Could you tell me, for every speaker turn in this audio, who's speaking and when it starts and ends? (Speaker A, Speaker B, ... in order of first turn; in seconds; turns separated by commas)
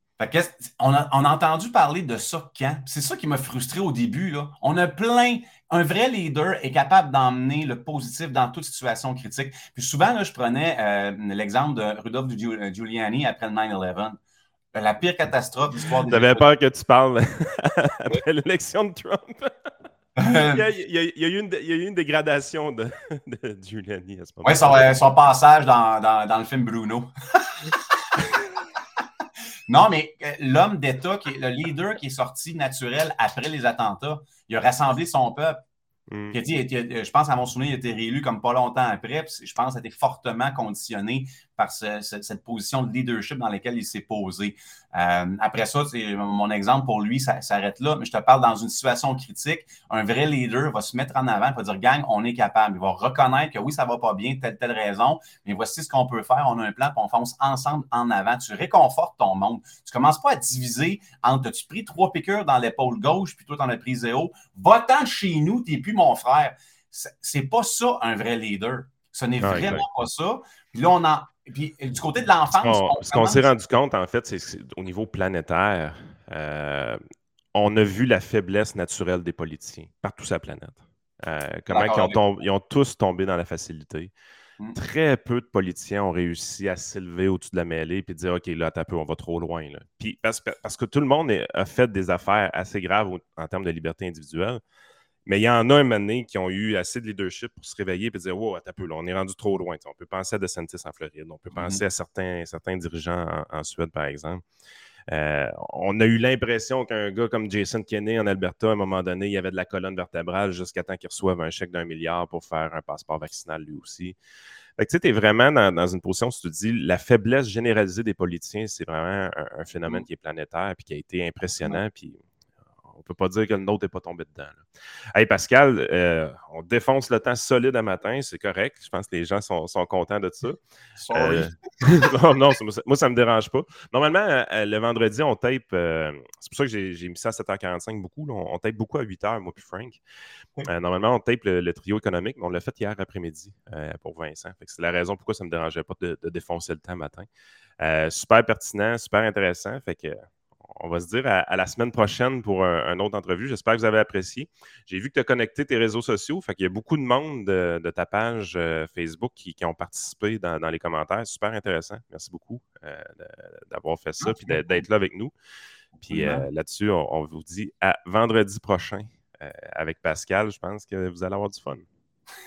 Speaker A: 0.2-14.2, Speaker A: 14.7-16.5, Speaker B: 16.1-19.7, Speaker A: 20.2-20.6, Speaker B: 20.5-24.9, Speaker A: 24.4-28.4, Speaker A: 29.7-35.6, Speaker B: 36.1-36.4, Speaker A: 36.3-73.5, Speaker B: 69.4-69.8, Speaker B: 72.6-77.0, Speaker B: 77.5-84.1, Speaker A: 81.7-82.2, Speaker B: 84.8-94.6, Speaker B: 95.3-104.4, Speaker A: 101.5-101.8, Speaker B: 105.1-114.2, Speaker B: 114.8-122.2, Speaker B: 122.9-130.6, Speaker A: 131.0-131.9, Speaker B: 131.1-140.0, Speaker B: 140.7-147.3, Speaker B: 147.8-165.3, Speaker A: 164.2-164.8, Speaker B: 166.0-171.9, Speaker A: 166.1-166.5